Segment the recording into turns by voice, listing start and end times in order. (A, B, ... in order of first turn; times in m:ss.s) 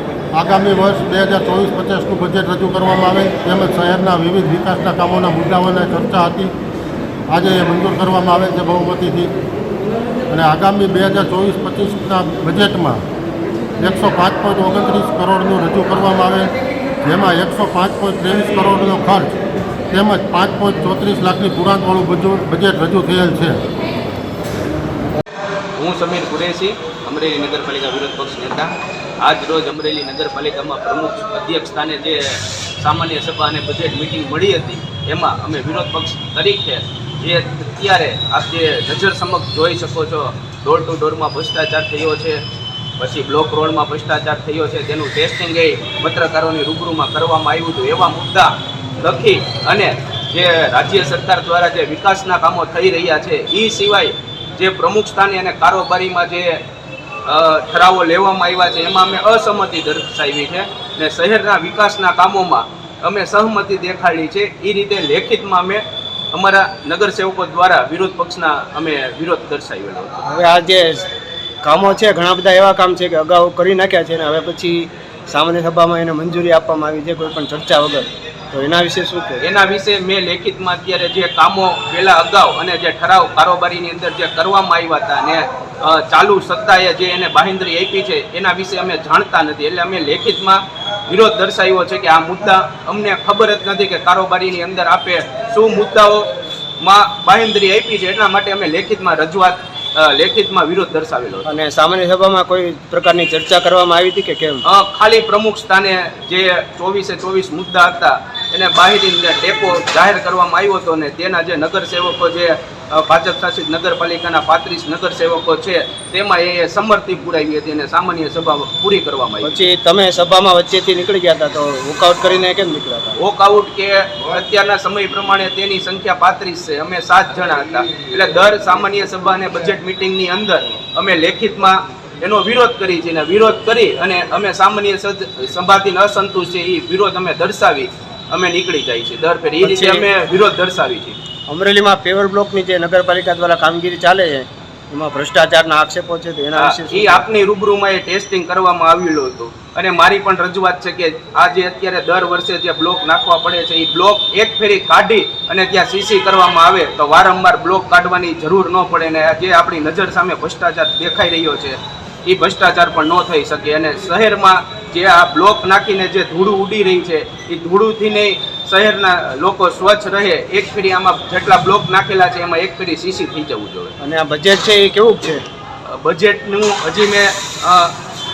0:00.3-0:06.5 A
0:07.3-0:09.3 A
0:10.3-0:13.0 A
0:13.8-0:16.5 A
0:17.0-0:19.4 A
0:19.9-0:23.6 A
0:25.8-0:42.4 B
0:43.0-0:56.6 B
0:57.2-1:10.2 B
1:10.2-1:11.0 C
1:11.6-1:19.4 C
1:19.4-1:36.3 B
1:36.8-1:41.5 B
1:41.4-1:44.6 C
1:44.6-1:59.7 B
1:59.4-2:03.2 C
2:03.2-2:21.2 B
2:19.6-2:20.1 C
2:21.5-2:27.3 C
2:26.5-2:53.9 B
2:54.0-2:55.4 C
2:55.8-2:58.0 B